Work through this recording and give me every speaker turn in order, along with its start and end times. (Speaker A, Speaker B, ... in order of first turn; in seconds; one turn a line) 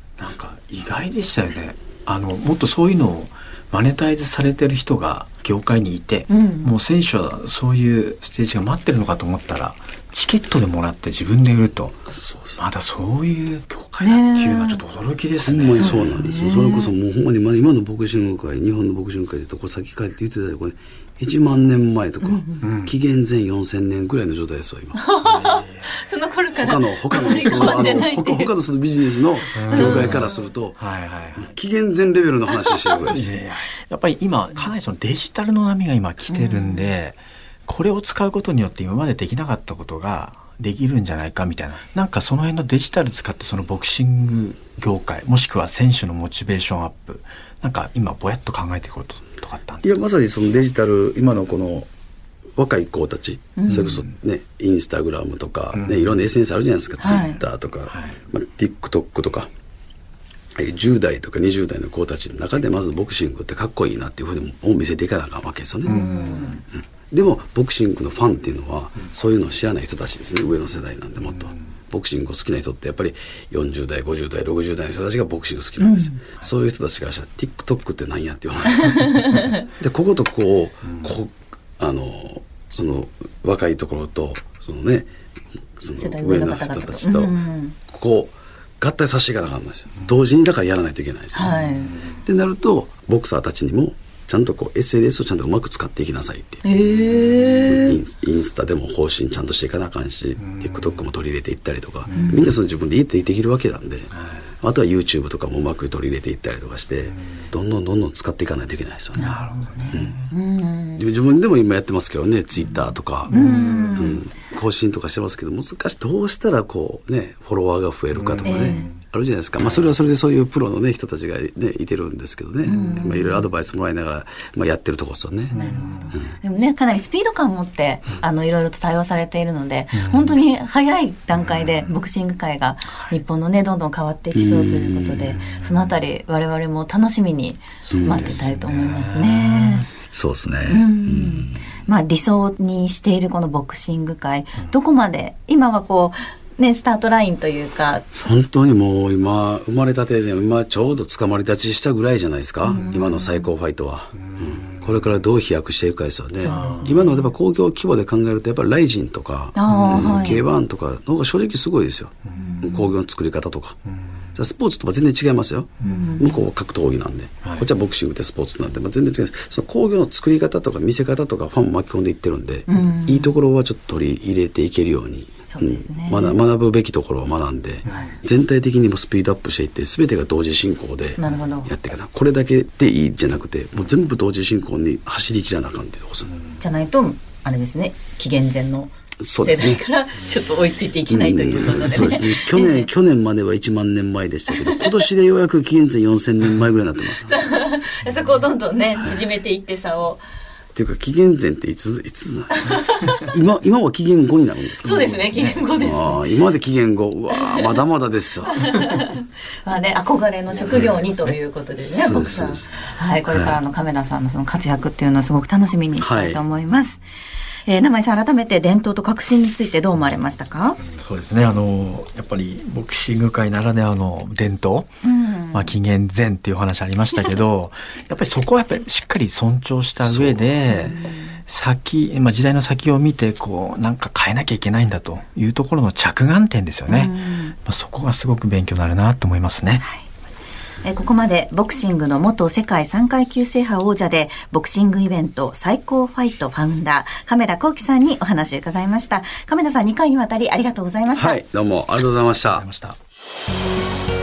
Speaker A: 0.2-12.0
Speaker B: 6.3-6.8
Speaker C: 12.1-12.6
Speaker A: 12.6-16.5
Speaker B: 14.0-14.8
Speaker C: 15.5-25.0
Speaker B: 15.7-16.9
Speaker B: 22.2-22.6
Speaker A: 22.6-22.9
Speaker B: 24.9-28.5
Speaker A: 25.2-26.0
Speaker C: 26.6-30.8
Speaker B: 29.5-30.5
Speaker A: 29.5-31.5
Speaker C: 31.4-33.2
Speaker B: 32.7-33.2
Speaker A: 33.1-49.9
Speaker B: 36.3-36.9
Speaker C: 49.8-51.9
Speaker C: 52.6-59.5
Speaker B: 53.6-53.9
Speaker A: 53.7-54.0
Speaker A: 55.7-56.1
Speaker B: 57.0-57.4
Speaker A: 57.9-58.2
Speaker C: 60.6-66.0
Speaker B: 65.8-66.6
Speaker A: 65.9-66.6
Speaker C: 67.1-79.1
Speaker A: 71.2-71.5
Speaker B: 75.8-76.2
Speaker B: 78.8-79.5
Speaker C: 79.6-85.1
Speaker C: 85.8-87.3
Speaker B: 86.0-87.8
Speaker C: 87.9-91.6
Speaker B: 91.3-92.0
Speaker A: 91.5-92.0
Speaker C: 92.2-96.6
Speaker B: 96.6-98.0
Speaker A: 97.0-97.8
Speaker C: 97.7-109.3
Speaker A: 100.5-101.0
Speaker A: 102.1-102.5
Speaker B: 102.1-102.5
Speaker A: 109.2-110.3
Speaker B: 109.2-111.0
Speaker C: 109.9-110.2
Speaker C: 111.0-113.4
Speaker A: 113.3-114.2
Speaker B: 113.3-114.2
Speaker C: 113.9-125.5
Speaker A: 118.1-119.0
Speaker B: 118.4-118.9
Speaker A: 119.6-119.9
Speaker B: 122.6-123.4
Speaker A: 122.7-123.0
Speaker A: 125.5-126.1
Speaker B: 125.5-139.9
Speaker A: 129.9-130.4
Speaker A: 131.4-131.8
Speaker C: 134.3-135.4
Speaker A: 137.9-139.9
Speaker C: 137.9-138.4
Speaker C: 140.1-141.6
Speaker B: 140.7-148.1
Speaker C: 148.2-163.8
Speaker B: 152.6-153.4
Speaker A: 154.3-155.1
Speaker B: 156.4-157.3
Speaker A: 156.5-157.1
Speaker B: 159.6-160.4
Speaker A: 159.7-160.2
Speaker B: 162.3-162.9
Speaker C: 164.3-186.3
Speaker A: 165.8-166.1
Speaker B: 165.8-166.4
Speaker B: 172.7-173.3
Speaker B: 175.5-176.4
Speaker A: 177.9-178.1
Speaker B: 181.2-181.7
Speaker B: 186.6-192.9
Speaker C: 189.2-189.8
Speaker C: 191.1-197.3
Speaker B: 194.5-194.9
Speaker B: 197.2-200.2
Speaker C: 200.7-208.6
Speaker B: 202.6-203.3
Speaker B: 204.8-206.2
Speaker B: 207.3-207.8
Speaker B: 208.5-217.0
Speaker C: 210.6-213.6
Speaker C: 216.0-216.4
Speaker B: 217.7-220.8
Speaker A: 220.9-224.9
Speaker B: 225.0-225.7
Speaker A: 225.5-239.8
Speaker C: 230.0-230.5
Speaker B: 230.7-231.4
Speaker B: 236.9-237.6
Speaker B: 240.8-251.4
Speaker C: 251.1-252.7
Speaker A: 252.4-253.0